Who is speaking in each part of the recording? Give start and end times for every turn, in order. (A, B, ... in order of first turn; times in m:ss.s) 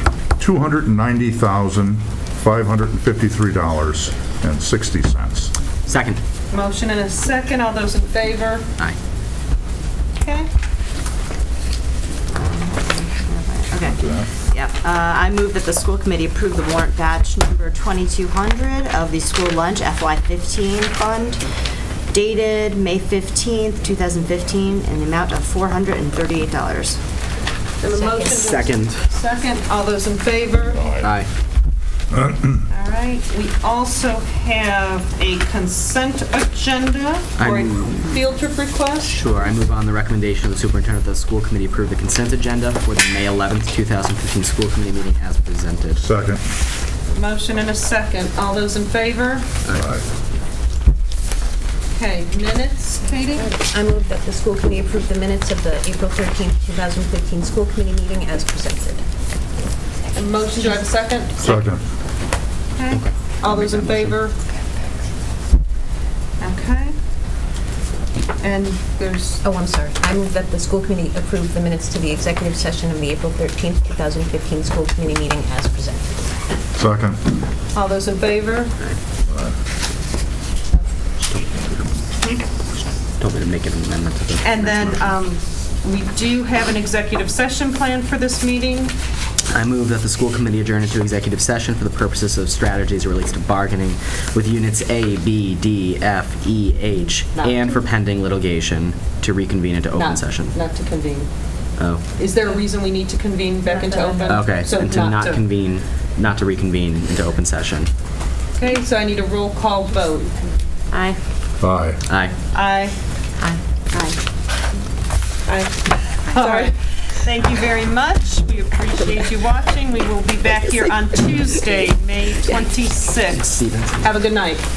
0:00.4-0:05.5 A
0:05.8-0:06.2 B
0:06.5-0:08.7 C
0:10.2-0:10.5 C
0:12.3-0:21.4 D
0:13.7-0:14.3 A
0:22.1-0:27.0 D
0:27.8-0:31.0 C
0:27.9-0:28.4 E
0:28.4-0:29.1 B
0:31.0-0:31.3 B
0:32.7-0:39.2 C
0:37.4-0:38.2 B
0:39.0-0:46.0 B
0:46.0-0:46.4 A
0:47.1-0:49.5 C
0:49.7-0:50.0 A
0:51.9-0:53.5 C
0:53.3-0:59.0 E
1:00.1-1:01.4 C
1:01.4-1:01.8 A
1:02.8-1:04.4 C
1:02.9-1:04.2 B
1:06.4-1:06.9 C
1:08.4-1:09.4 C
1:09.4-1:16.2 E
1:16.7-1:17.2 A
1:17.7-1:18.8 C
1:19.3-1:19.6 A
1:21.3-1:21.7 B
1:23.2-1:25.2 B
1:24.4-1:28.9 C
1:29.5-1:40.6 B
1:37.4-1:37.6 C
1:39.9-1:41.3 C
1:41.8-1:42.0 B
1:42.1-1:45.4 C
1:43.6-1:44.4 E
1:44.3-1:47.9 B
1:48.5-1:50.5 C
1:50.9-1:51.2 E
1:51.6-1:52.0 A
1:52.1-1:52.4 B
1:52.5-1:53.0 C
1:53.4-1:54.1 E
1:55.4-2:04.7 C
1:56.4-1:56.7 E
2:03.3-2:04.2 B